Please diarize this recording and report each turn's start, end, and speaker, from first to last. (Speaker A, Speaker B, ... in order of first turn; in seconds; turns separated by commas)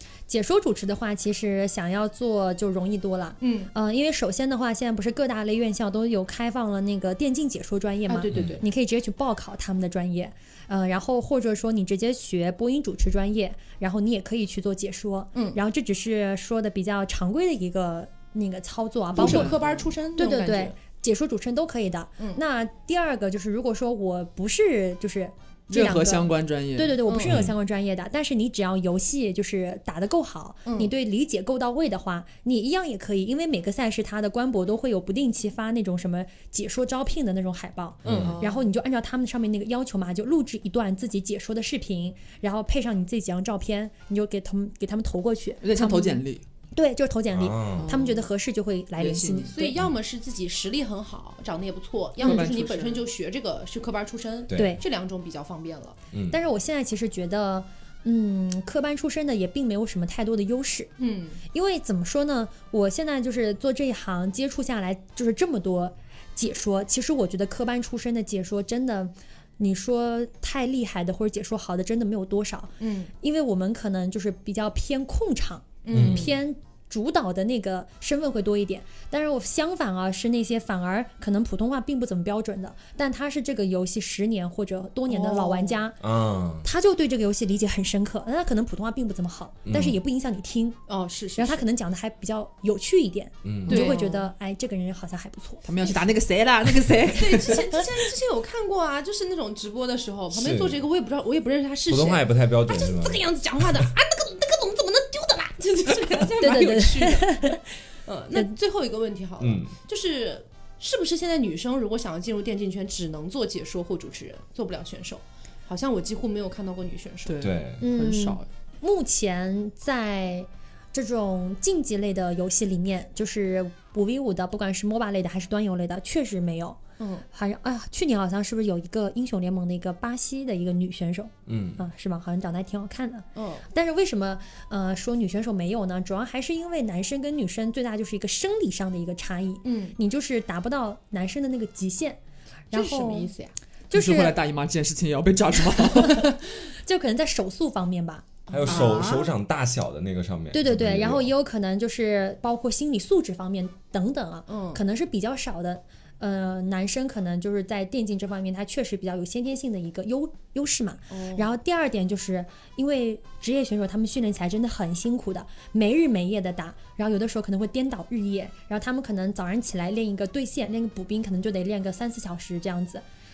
Speaker A: 0.3-19.5, Speaker B: 3.4-3.7, Speaker B: 8.1-8.6, Speaker C: 8.3-8.6, Speaker D: 19.1-19.8, Speaker B: 19.1-20.7, Speaker A: 20.1-46.2, Speaker D: 25.7-27.0, Speaker B: 27.1-27.4, Speaker C: 27.2-27.5, Speaker B: 30.6-30.9, Speaker C: 38.0-38.4, Speaker D: 38.0-38.6, Speaker D: 45.6-46.4, Speaker A: 46.7-49.8, Speaker C: 47.3-48.0, Speaker D: 47.8-48.2, Speaker D: 49.0-49.5, Speaker B: 49.5-56.0, Speaker D: 52.2-53.0, Speaker A: 52.2-52.5, Speaker C: 54.5-54.8, Speaker A: 54.5-54.8, Speaker C: 56.1-56.4, Speaker A: 56.3-60.9, Speaker B: 61.0-61.4, Speaker A: 61.5-86.0, Speaker B: 72.8-73.1, Speaker B: 75.8-76.3, Speaker C: 75.9-76.3, Speaker B: 85.1-85.8, Speaker C: 86.0-86.7, Speaker A: 86.6-90.8, Speaker C: 89.7-90.0, Speaker B: 90.9-91.6, Speaker A: 91.4-96.1, Speaker C: 93.4-93.9, Speaker D: 93.7-94.0, Speaker B: 93.7-94.2, Speaker D: 95.6-97.7, Speaker B: 97.1-117.5, Speaker C: 100.3-100.8, Speaker C: 101.9-103.2, Speaker A: 106.4-107.7, Speaker C: 109.4-109.7, Speaker D: 117.2-118.5, Speaker C: 117.4-117.8, Speaker A: 117.8-126.8, Speaker B: 127.0-127.2, Speaker A: 127.3-142.2, Speaker C: 131.5-131.8, Speaker B: 133.3-133.6, Speaker B: 139.6-139.9, Speaker A: 142.7-143.3, Speaker B: 142.7-143.5, Speaker A: 143.9-144.3, Speaker D: 143.9-146.3, Speaker A: 145.7-148.3, Speaker B: 148.5-149.2, Speaker C: 148.5-151.3, Speaker D: 148.7-149.3, Speaker A: 150.5-173.0, Speaker B: 154.5-154.8, Speaker B: 161.1-161.5